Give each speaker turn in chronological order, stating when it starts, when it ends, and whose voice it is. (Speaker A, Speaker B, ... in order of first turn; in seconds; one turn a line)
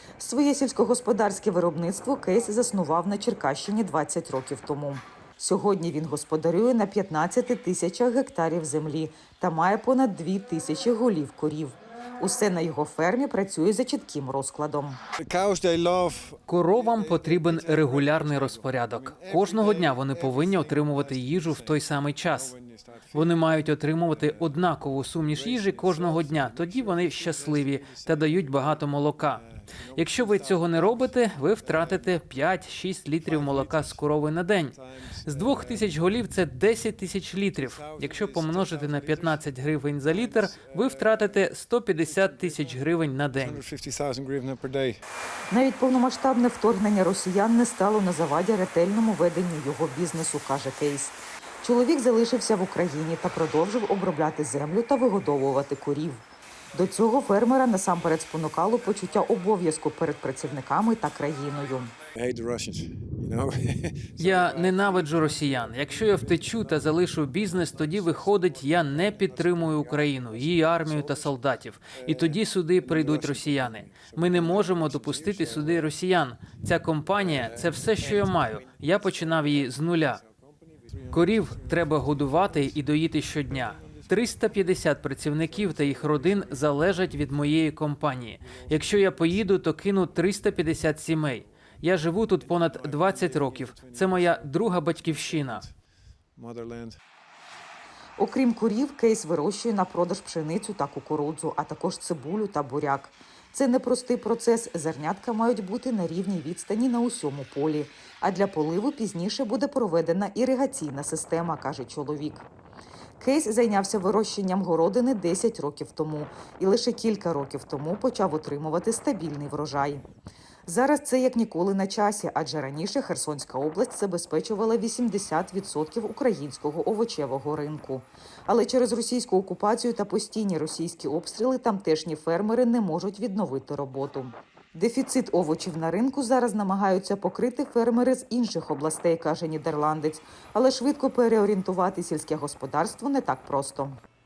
Speaker A: 0.2-15.0
Speaker B: 15.2-23.5
Speaker C: 16.5-22.5
Speaker C: 23.1-29.4
Speaker B: 24.1-24.5
Speaker B: 25.3-32.2
Speaker C: 29.9-43.6
Speaker B: 33.2-34.1
Speaker B: 34.7-36.2
Speaker B: 37.5-39.5
Speaker B: 40.0-41.5
Speaker B: 42.0-45.0
Speaker A: 45.5-61.9
Speaker B: 62.1-75.9
Speaker C: 64.2-80.2
Speaker B: 77.2-84.8
Speaker C: 81.1-95.6
Speaker B: 85.3-87.4
Speaker B: 88.4-89.6
Speaker B: 90.3-95.7
Speaker B: 96.3-97.0
Speaker A: 98.2-112.5
Speaker A: 113.2-120.0
Speaker A: 120.7-144.0